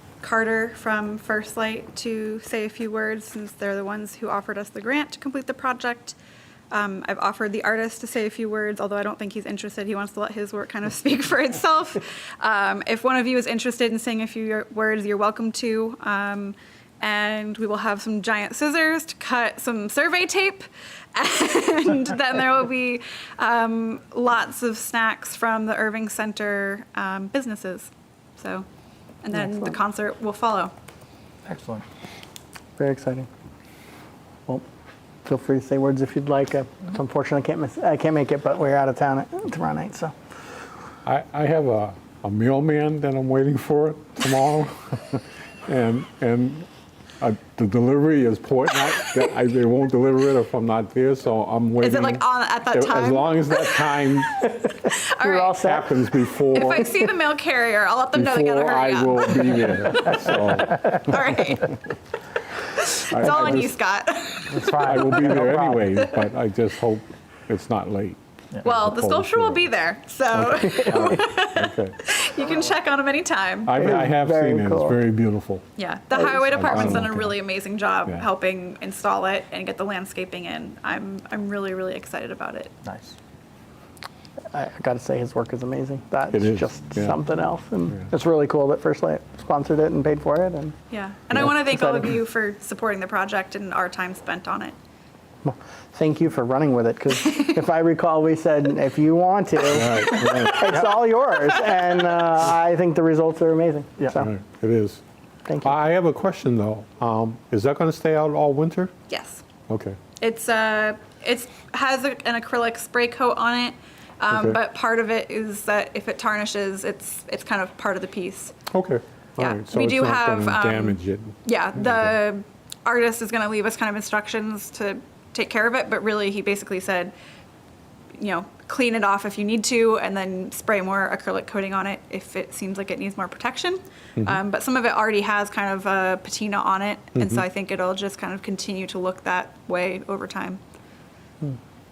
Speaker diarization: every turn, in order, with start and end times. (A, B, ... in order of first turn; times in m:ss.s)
0:00.2-0:06.2 A
0:06.7-0:28.7 A
0:29.2-0:30.7 A
0:31.5-0:31.8 B
0:32.8-0:33.3 C
0:35.2-0:40.1 C
0:41.0-0:46.7 D
0:47.2-0:54.5 D
0:51.8-0:55.6 A
0:55.2-0:56.1 C
0:55.5-0:56.9 D
0:56.5-1:01.7 A
0:58.2-1:01.2 D
1:02.6-1:05.4 A
1:03.1-1:03.7 D
1:04.5-1:05.9 B
1:04.8-1:09.7 D
1:08.6-1:13.8 A
1:10.3-1:12.0 D
1:13.6-1:15.6 D
1:13.8-1:15.0 C
1:15.8-1:22.7 A
1:16.2-1:16.9 C
1:16.6-1:17.3 D
1:22.8-1:23.2 B
1:24.5-1:30.8 C
1:26.3-1:27.2 D
1:30.9-1:34.8 A
1:31.5-1:32.1 C
1:35.4-1:44.3 C
1:39.7-1:40.7 D
1:44.1-1:45.0 D
1:45.5-1:45.8 C
1:45.6-1:48.9 D
1:49.1-1:49.4 A
1:49.7-1:50.0 D
1:50.2-1:58.5 A
1:54.3-1:54.6 D
1:58.7-2:02.2 D
1:59.4-2:07.1 A
2:08.2-2:20.6 A